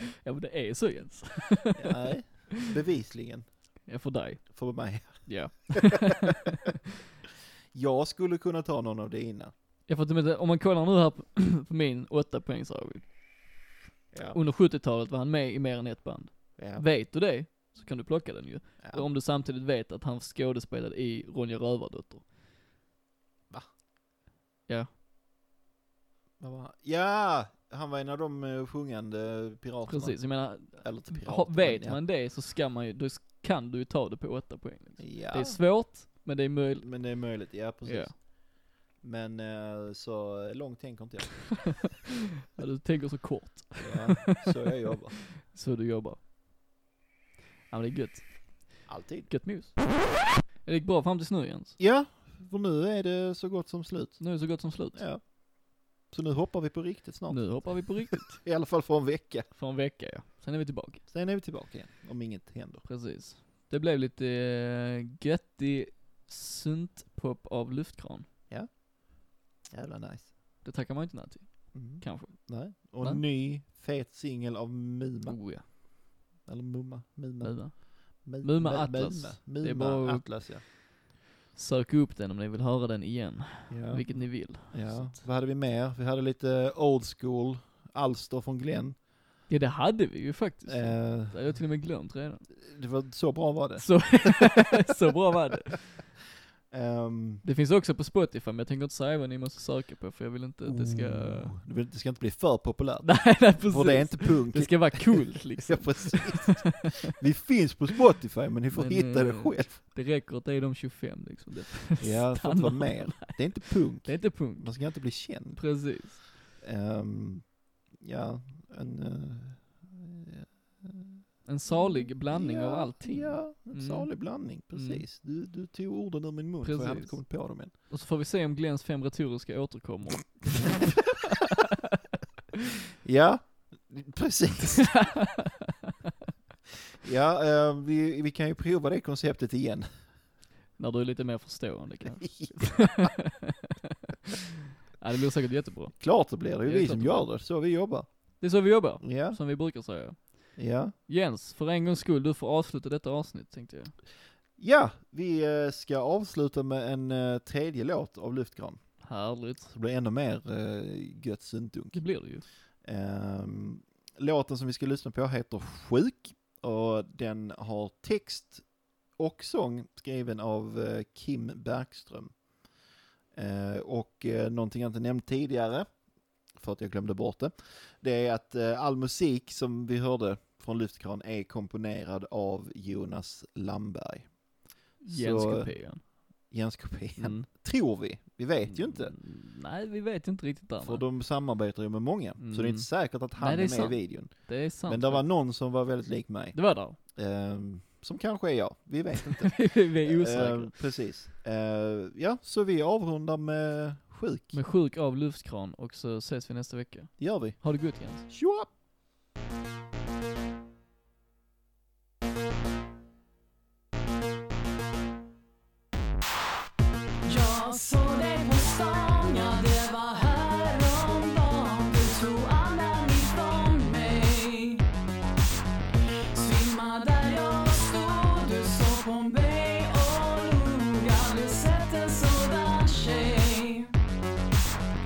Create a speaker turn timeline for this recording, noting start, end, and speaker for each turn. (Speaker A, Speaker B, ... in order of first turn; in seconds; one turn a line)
Speaker A: 0.2-2.4
Speaker B: 1.8-3.9
Speaker A: 3.9-6.7
Speaker B: 4.5-6.0
Speaker B: 7.7-9.5
Speaker A: 9.9-13.1
Speaker B: 14.1-14.4
Speaker A: 14.3-22.2
Speaker B: 16.6-16.9
Speaker B: 18.8-19.1
Speaker B: 26.4-32.0
Speaker A: 29.9-38.1
Speaker B: 35.0-35.9
Speaker B: 36.8-42.0
Speaker A: 42.5-44.7
Speaker B: 43.8-45.2
Speaker A: 45.4-46.2
Speaker A: 47.7-50.0
Speaker B: 48.9-49.3
Speaker A: 50.6-51.8
Speaker B: 51.8-59.5
Speaker A: 54.2-55.1
Speaker A: 57.3-58.4
Speaker A: 59.5-61.0
Speaker B: 61.1-62.8
Speaker A: 62.9-68.3
Speaker B: 68.5-70.3
Speaker A: 70.6-73.2
Speaker B: 71.7-75.8
Speaker A: 75.3-75.7
Speaker B: 76.5-80.7
Speaker A: 77.4-80.9
Speaker A: 81.5-85.2
Speaker B: 83.7-89.0
Speaker A: 89.5-92.5
Speaker B: 90.7-91.6
Speaker B: 92.6-94.4
Speaker A: 93.8-96.0
Speaker B: 96.7-97.4
Speaker A: 97.4-101.6
Speaker B: 100.7-109.8
Speaker A: 103.0-107.0
Speaker A: 108.7-116.3
Speaker B: 112.0-127.7
Speaker A: 121.5-125.0
Speaker A: 126.6-131.4
Speaker B: 130.5-130.9
Speaker B: 133.0-135.2
Speaker A: 134.9-135.6
Speaker B: 137.0-140.1
Speaker A: 140.8-143.8
Speaker B: 142.1-143.2
Speaker A: 145.0-147.3
Speaker B: 146.0-149.4
Speaker A: 148.4-154.0
Speaker B: 150.6-150.9
Speaker B: 154.6-162.1
Speaker A: 159.0-159.7
Speaker A: 161.9-162.4
Speaker B: 162.8-172.5
Speaker B: 173.3-189.2
Speaker A: 185.0-186.0
Speaker A: 187.2-187.5
Speaker A: 188.6-191.1
Speaker B: 190.8-204.6
Speaker A: 192.4-195.3
Speaker A: 196.5-197.0
Speaker A: 199.5-200.8
Speaker A: 204.5-208.3
Speaker B: 207.2-208.7
Speaker C: 217.2-224.8
Speaker C: 226.3-233.9